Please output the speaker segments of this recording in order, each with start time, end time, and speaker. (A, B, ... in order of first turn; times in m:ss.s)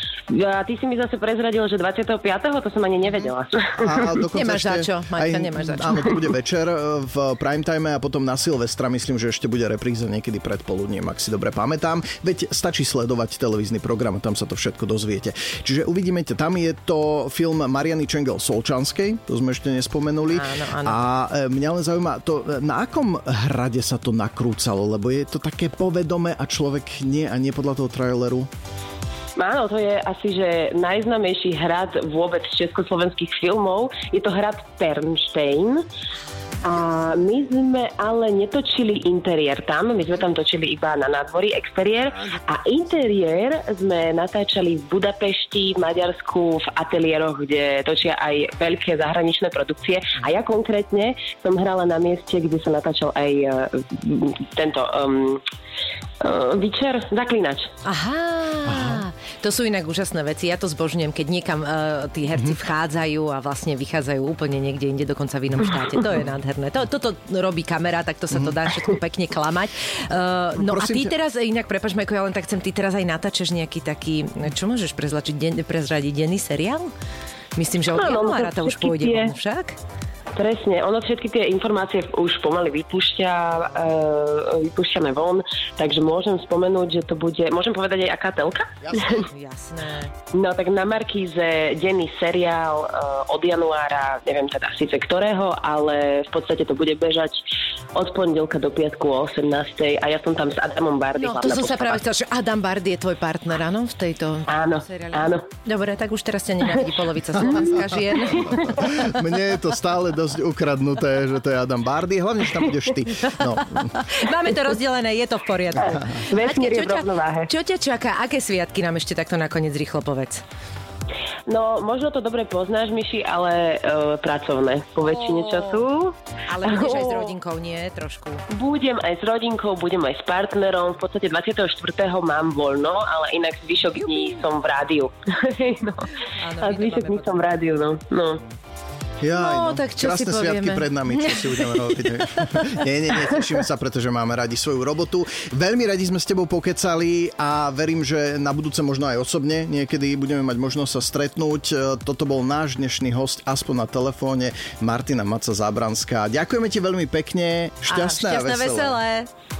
0:00.3-0:04.1 A
0:03.8-0:28.5 B
0:04.3-0:06.1 C
0:20.3-0:21.0 C
0:29.4-0:35.8 A
0:36.6-0:55.4 A
0:56.2-0:57.7 A
0:57.8-1:16.9 C
0:58.7-0:59.0 B
1:10.6-1:11.1 B
1:17.6-1:19.8 C
1:18.0-1:19.3 A
1:20.3-1:29.3 A
1:28.9-1:29.2 B
1:29.3-1:30.1 C
1:30.3-1:42.0 A
1:41.2-1:49.0 C
1:44.5-1:45.4 A
1:47.5-1:54.0 B
1:53.2-2:00.4 C
1:55.8-1:56.1 B
1:55.8-1:57.5 A
2:01.5-2:07.3 A
2:05.0-2:05.9 C
2:06.5-2:08.4 C
2:08.5-2:18.4 A
2:13.9-2:14.5 C
2:16.2-2:17.4 C
2:19.2-2:39.0 B
2:19.4-2:22.6 C
2:37.9-2:39.3 C